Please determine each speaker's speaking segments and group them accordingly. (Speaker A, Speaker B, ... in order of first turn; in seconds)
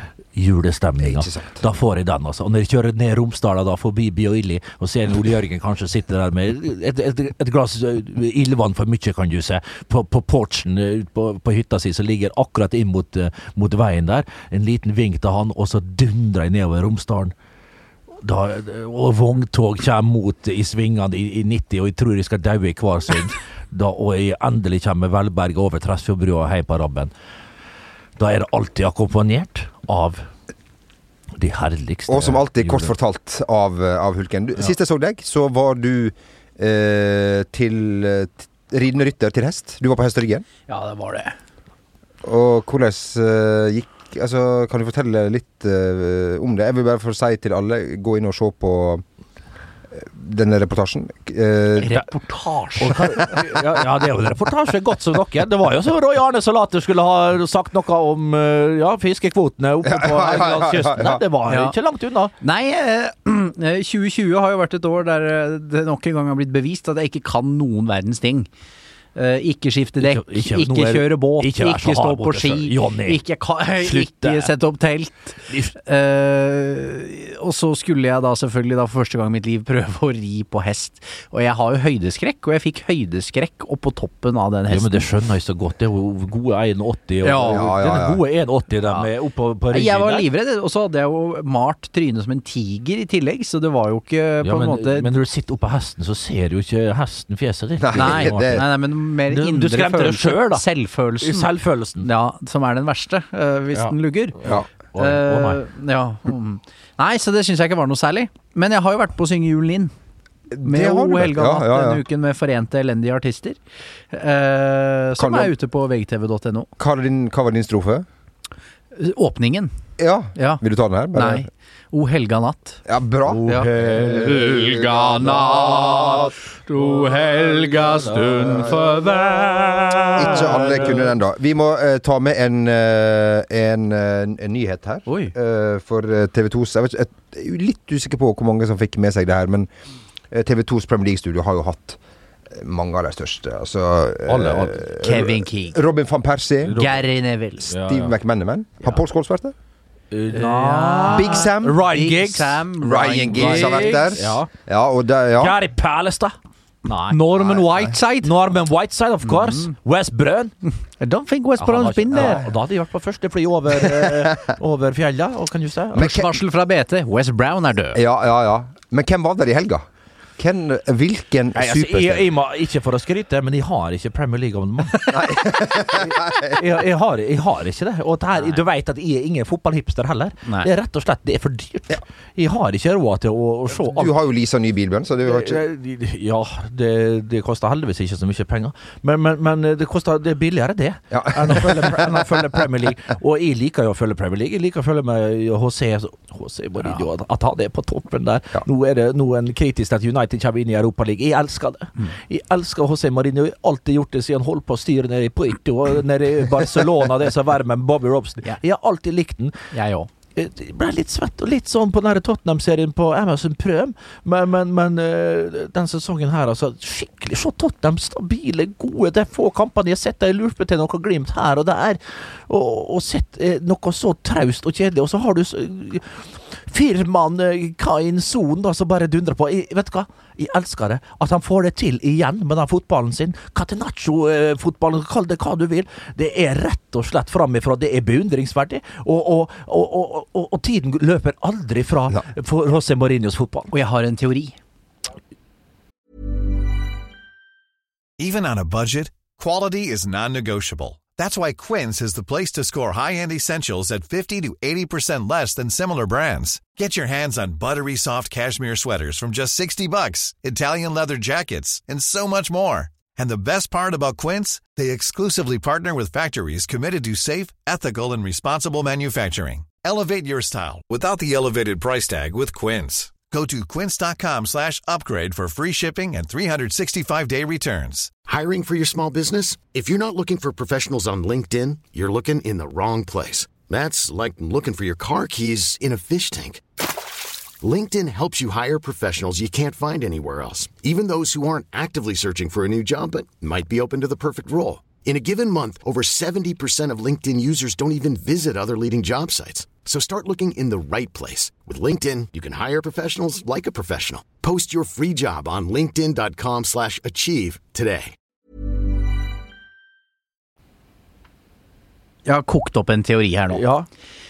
Speaker A: 0.3-17.3, 18.2-27.1, 28.2-30.3, 31.4-32.9, 52.8-62.3, 70.0-73.2, 73.8-74.5, 75.5-75.7, 84.7-90.2, 94.4-98.7, 99.3-100.6, 101.2-102.1, 103.7-105.6, 123.3-131.1, 144.3-144.9, 146.7-147.0, 147.7-148.1, 150.1-152.6, 153.3-154.5, 155.4-156.3, 156.9-157.2, 158.2-160.5, 161.6-166.1, 171.5-184.1, 185.2-209.5, 210.3-243.7, 313.5-313.9
Speaker B: 1.0-1.6, 32.1-40.5, 42.2-49.0, 49.9-51.9, 59.8-61.2, 87.5-88.2, 97.8-98.6, 110.5-112.0, 115.2-115.5, 116.8-118.0, 120.0-121.5, 122.9-126.0, 130.1-139.7, 140.3-142.0, 142.5-146.8, 147.7-149.5, 151.1-151.8, 152.8-155.6, 157.3-157.9, 162.1-162.4, 163.9-164.3, 165.9-166.3, 167.9-169.8, 170.4-172.3, 175.1-176.6, 183.7-185.6, 191.1-192.1
Speaker C: 40.7-41.3, 51.8-53.1, 61.5-61.7, 62.4-68.5, 69.1-85.0, 87.2-87.7, 89.7-95.1, 97.9-101.5, 102.0-104.4, 105.0-109.9, 110.6-113.6, 114.1-116.7, 119.0-119.7, 120.3-120.6, 121.1-122.8, 123.5-130.6, 135.1-135.3, 145.0-145.8, 146.7-147.7, 150.3-154.2, 156.9-158.3, 159.3-159.7, 161.0-162.4, 165.9-168.0, 209.7-210.1, 243.7-244.6, 312.2-313.6
Speaker D: 248.2-278.1
Speaker E: 278.3-286.6, 287.6-308.1